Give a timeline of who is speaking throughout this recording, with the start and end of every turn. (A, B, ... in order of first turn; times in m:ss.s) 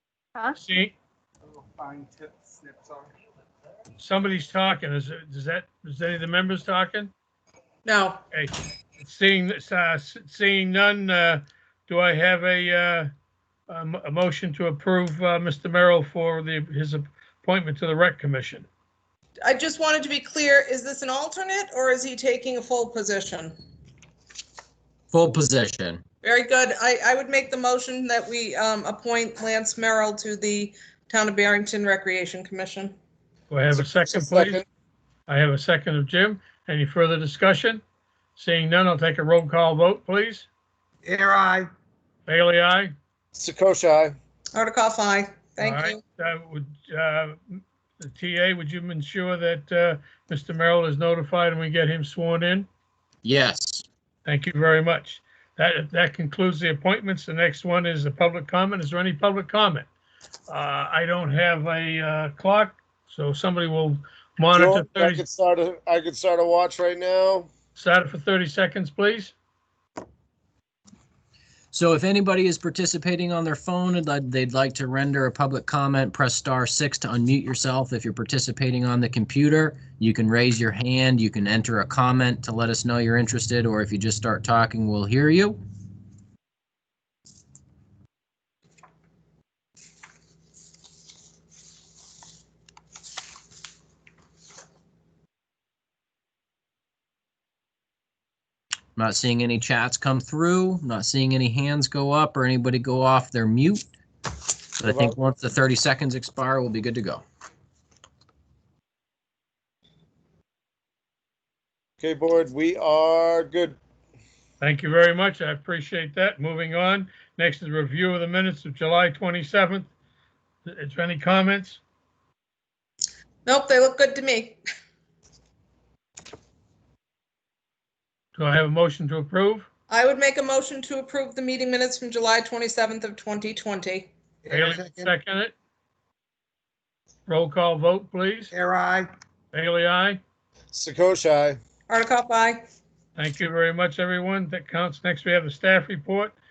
0:00.6-0:01.0 A
0:04.0-0:07.1 A
0:07.8-0:08.2 B
0:08.3-0:13.1 A
0:13.7-0:18.7 A
0:19.4-0:23.6 B
0:25.1-0:26.0 C
0:26.2-0:33.0 B
0:33.5-0:34.6 A
0:33.7-0:34.6 D
0:35.3-0:37.8 A
0:38.4-0:40.5 A
0:41.0-0:41.7 E
0:42.3-0:43.0 A
0:43.4-0:44.2 D
0:44.5-0:46.0 B
0:45.6-0:47.4 A
0:48.0-0:52.7 A
0:53.2-0:53.8 C
0:54.2-0:59.9 A
1:00.5-1:05.2 A
1:04.5-1:07.5 D
1:07.8-1:09.4 A
1:11.7-1:25.6 C
1:39.0-1:43.9 C
1:44.8-1:47.2 C
1:44.9-1:45.2 D
1:52.0-1:53.8 D
1:54.6-1:59.9 A
2:00.6-2:01.8 A
2:03.5-2:04.6 B
2:08.4-2:09.7 A
2:09.9-2:14.1 B
2:14.4-2:15.1 E
2:14.5-2:15.6 A
2:17.3-2:18.5 A
2:18.5-2:19.1 E
2:19.5-2:20.2 A
2:20.7-2:21.6 D
2:21.9-2:22.6 B
2:23.2-2:26.4 A